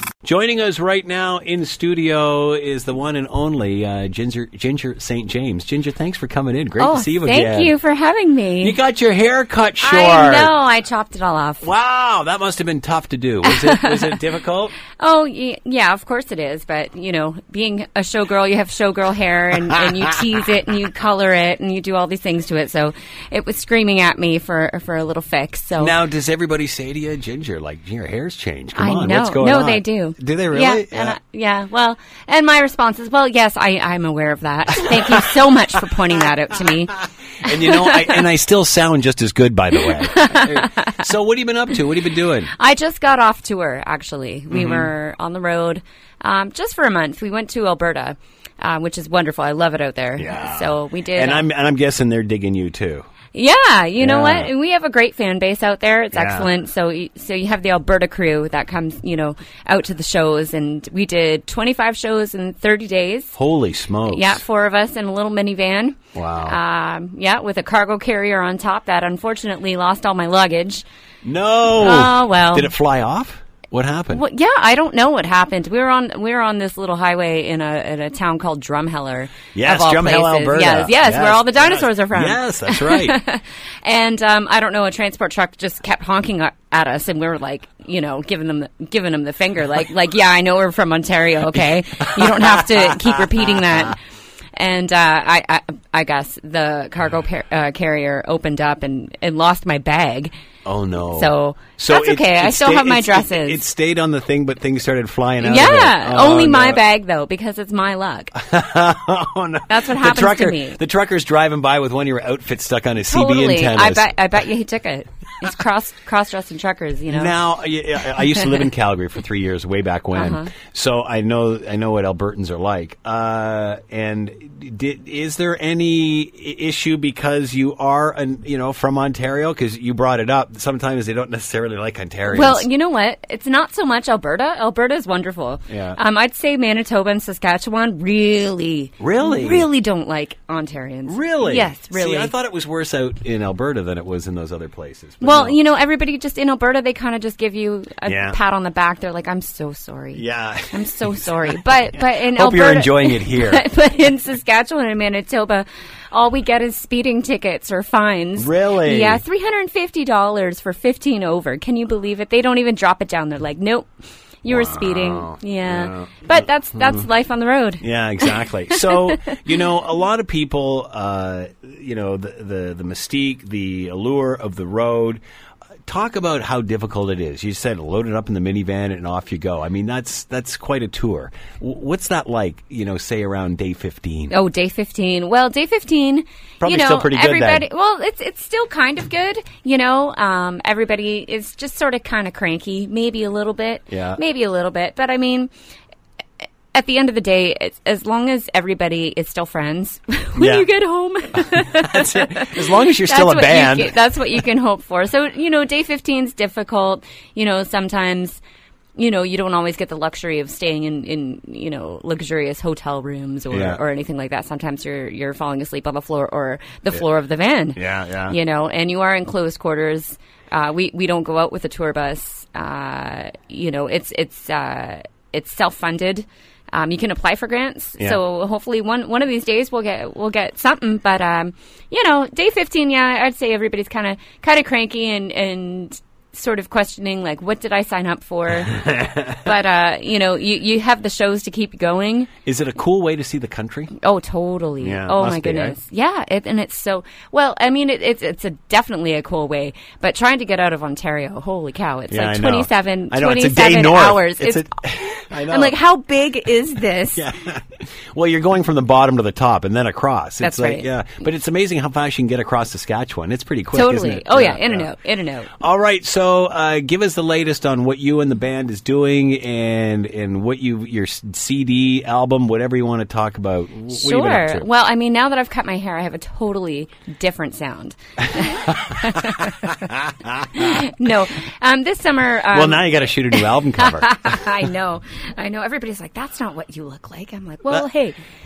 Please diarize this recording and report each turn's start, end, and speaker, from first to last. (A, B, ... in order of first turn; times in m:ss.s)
0:00.2-0:07.7 A
0:06.8-0:08.8 B
0:08.6-0:10.5 A
0:09.8-0:11.7 B
0:11.6-0:14.8 A
0:13.4-0:14.2 B
0:15.0-0:26.0 B
0:19.7-0:20.1 A
0:25.8-0:31.2 A
0:28.8-0:38.3 B
0:34.8-0:35.3 A
0:37.4-0:42.5 A
0:39.8-0:41.0 B
0:42.6-0:51.4 B
0:44.5-0:44.9 A
0:50.2-0:53.1 A
0:53.3-1:03.3 B
0:54.0-0:54.5 A
0:56.1-0:56.5 A
1:03.3-1:04.4 A
1:04.1-1:10.8 B
1:06.1-1:06.6 A
1:11.2-1:14.2 A
1:11.7-1:12.7 B
1:14.1-1:34.0 B
1:19.5-1:23.2 A
1:31.5-1:33.8 A
1:34.5-1:40.3 B
1:40.6-1:46.8 A
1:41.1-1:43.6 B
1:45.4-1:48.3 B
1:48.4-1:54.1 A
1:49.7-1:50.8 B
1:53.1-1:57.4 B
1:57.1-2:12.7 A
2:00.1-2:00.5 B
2:12.3-2:22.3 B
2:15.7-2:16.0 A
2:19.0-2:19.7 A
2:21.1-2:25.6 A
2:25.2-2:43.9 B
2:28.0-2:28.4 A
2:30.1-2:33.6 A
2:38.4-2:39.2 A
2:44.4-2:49.4 B
2:44.5-2:47.0 A
2:47.8-2:55.2 A
2:55.8-3:04.3 A
3:04.3-3:15.5 B
3:06.6-3:07.6 A
3:13.9-3:14.2 A
3:16.7-3:28.4 B
3:20.4-3:20.7 A
3:21.4-3:24.0 A
3:29.0-4:02.3 B
3:33.5-3:33.8 A
3:37.8-3:38.4 A
3:58.7-3:59.4 A
4:02.4-4:03.9 A
4:03.9-4:14.7 B
4:04.8-4:05.8 A
4:12.1-4:15.8 A
4:15.4-4:17.2 B
4:17.1-4:24.9 A
4:20.4-4:20.9 B
4:23.7-4:25.5 B
4:25.6-4:34.7 A
4:33.9-4:39.8 B
4:38.4-4:40.8 A
4:40.5-4:48.2 B
4:42.5-4:44.7 A